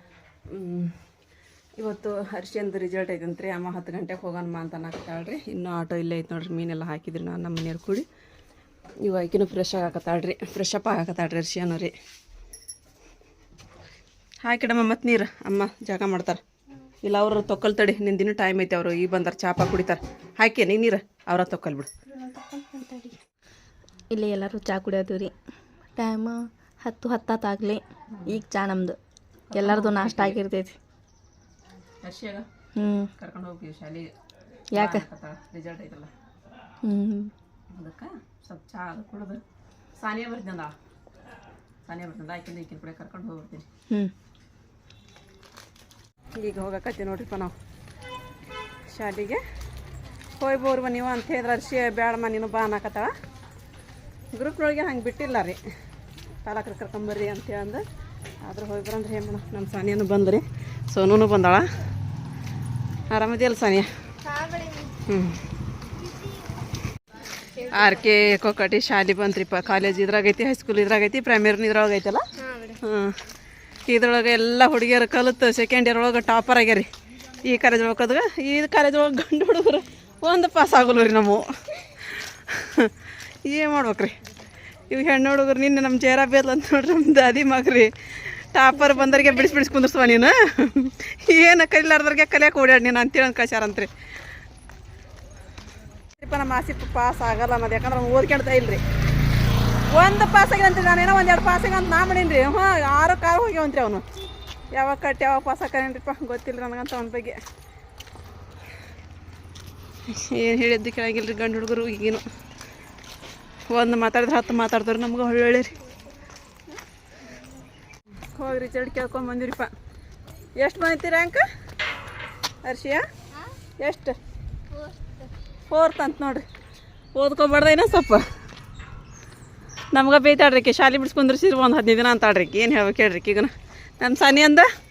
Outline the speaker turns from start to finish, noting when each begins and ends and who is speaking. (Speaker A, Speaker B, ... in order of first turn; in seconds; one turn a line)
Speaker A: 0.5-1.0
Speaker A: 1.8-8.1
Speaker A: 9.0-11.9
Speaker A: 14.4-16.4
Speaker A: 17.0-21.9
Speaker B: 22.1-23.2
Speaker B: 24.1-25.3
Speaker B: 26.0-29.0
Speaker A: 29.5-30.4
Speaker B: 29.5-30.8
Speaker A: 32.0-32.5
Speaker B: 32.8-33.1
Speaker A: 33.1-34.1
Speaker B: 34.7-35.0
Speaker A: 34.8-36.1
Speaker B: 36.8-37.3
Speaker A: 37.7-39.4
Speaker A: 40.0-40.8
Speaker A: 41.9-43.7
Speaker A: 46.4-47.5
Speaker A: 48.9-49.4
Speaker A: 50.4-53.1
Speaker A: 54.3-55.6
Speaker A: 56.4-57.8
Speaker A: 58.4-61.7
Speaker A: 63.1-63.9
Speaker B: 64.3-64.9
Speaker A: 65.0-65.4
Speaker A: 67.6-72.2
Speaker B: 72.4-72.8
Speaker A: 72.8-73.2
Speaker A: 73.9-76.9
Speaker A: 77.4-84.2
Speaker A: 84.9-93.9
Speaker B: 88.9-89.2
Speaker A: 96.2-98.8
Speaker A: 99.9-104.0
Speaker A: 104.7-107.4
Speaker A: 110.1-112.2
Speaker A: 113.7-115.8
Speaker A: 118.3-119.7
Speaker A: 120.6-121.5
Speaker A: 122.6-123.0
Speaker A: 123.8-124.2
Speaker A: 125.7-126.5
Speaker A: 127.2-128.3
Speaker A: 129.9-134.7